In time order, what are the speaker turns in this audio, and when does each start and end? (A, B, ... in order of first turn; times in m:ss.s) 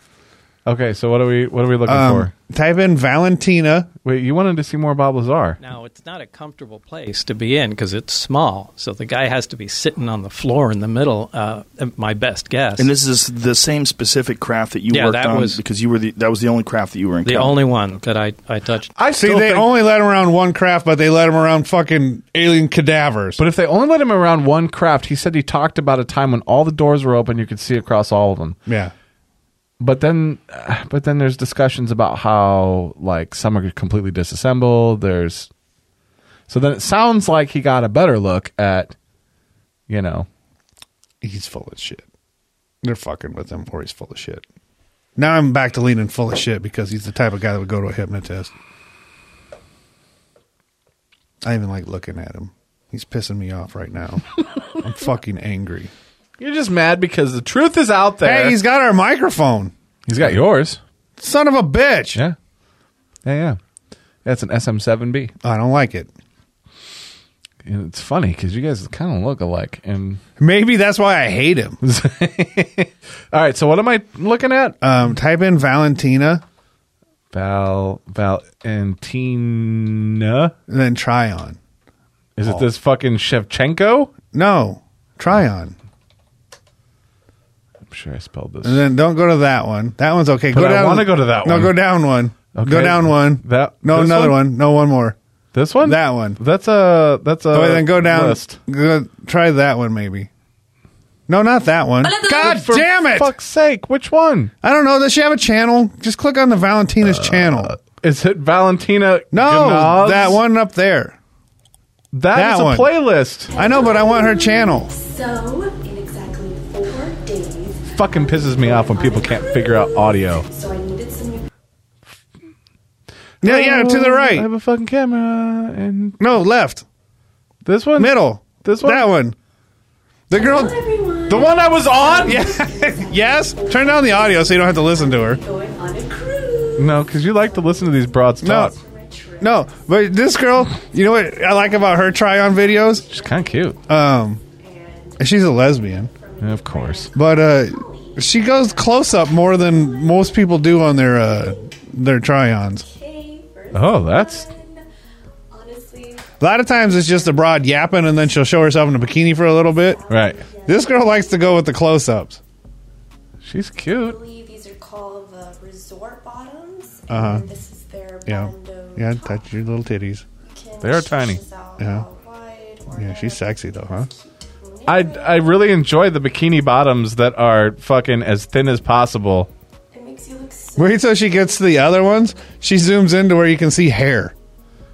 0:00.6-0:02.3 A
0:01.8-0:03.9 B
0:04.0-0:05.6 A
0:05.6-0:12.9 C
0:12.8-0:17.6 D
0:14.9-0:15.6 C
0:17.2-0:18.9 C
0:18.9-0:19.7 A
0:19.2-0:23.4 B
0:23.4-0:28.6 A
0:28.7-0:28.9 B
0:29.8-0:35.5 A
0:36.5-0:38.9 A
0:39.9-0:40.3 A
0:41.2-0:42.0 B
0:42.8-0:44.4 B
0:45.2-0:48.5 B
0:51.4-0:55.9 B
0:56.4-0:58.6 A
0:58.2-1:00.3 B
1:00.1-1:00.8 A
1:01.2-1:02.2 B
1:03.2-1:03.6 A
1:04.2-1:05.3 A
1:05.4-1:06.1 B
1:07.6-1:10.2 A
1:10.4-1:11.8 B
1:11.8-1:14.8 A
1:14.8-1:16.4 B
1:17.3-1:20.5 A
1:20.7-1:21.6 B
1:22.4-1:24.1 A
1:24.3-1:25.8 B
1:27.9-1:28.8 A
1:28.6-1:35.2 B
1:30.5-1:31.8 A
1:32.5-1:34.4 A
1:35.5-1:38.6 A
1:35.8-1:36.4 B
1:37.5-1:40.3 B
1:41.3-1:43.3 B
1:42.1-1:44.5 A
1:44.6-1:47.8 B
1:47.0-1:50.4 A
1:49.3-1:51.2 B
1:52.1-1:53.5 A
1:52.3-1:52.9 B
1:53.5-2:01.5 E
1:53.5-1:54.9 B
1:57.9-2:00.5 A
2:03.4-2:04.5 B
2:03.4-2:06.2 A
2:06.2-2:06.8 B
2:07.6-2:09.1 A
2:08.0-2:09.4 B
2:10.3-2:10.8 B
2:10.3-2:23.9 E
2:11.3-2:12.5 A
2:12.2-2:15.4 B
2:16.8-2:18.7 A
2:18.4-2:18.7 B
2:19.4-2:23.1 B
2:23.1-2:23.8 A
2:23.9-2:24.4 B
2:24.5-2:31.7 E
2:25.2-2:26.1 B
2:26.4-2:27.1 A
2:27.1-2:32.9 B
2:32.7-2:34.8 E
2:33.7-2:34.4 A
2:35.5-2:41.8 E
2:36.4-2:40.0 B
2:40.1-2:40.4 A
2:40.6-2:42.4 B
2:43.4-2:44.2 A
2:43.9-2:49.5 E
2:47.1-2:47.5 B
2:48.3-2:50.2 B
2:50.4-2:55.7 E
2:50.8-2:51.4 A
2:51.8-2:52.0 B
2:52.9-2:54.1 B
2:54.8-2:59.5 A
2:59.9-3:02.6 E
3:00.8-3:04.3 B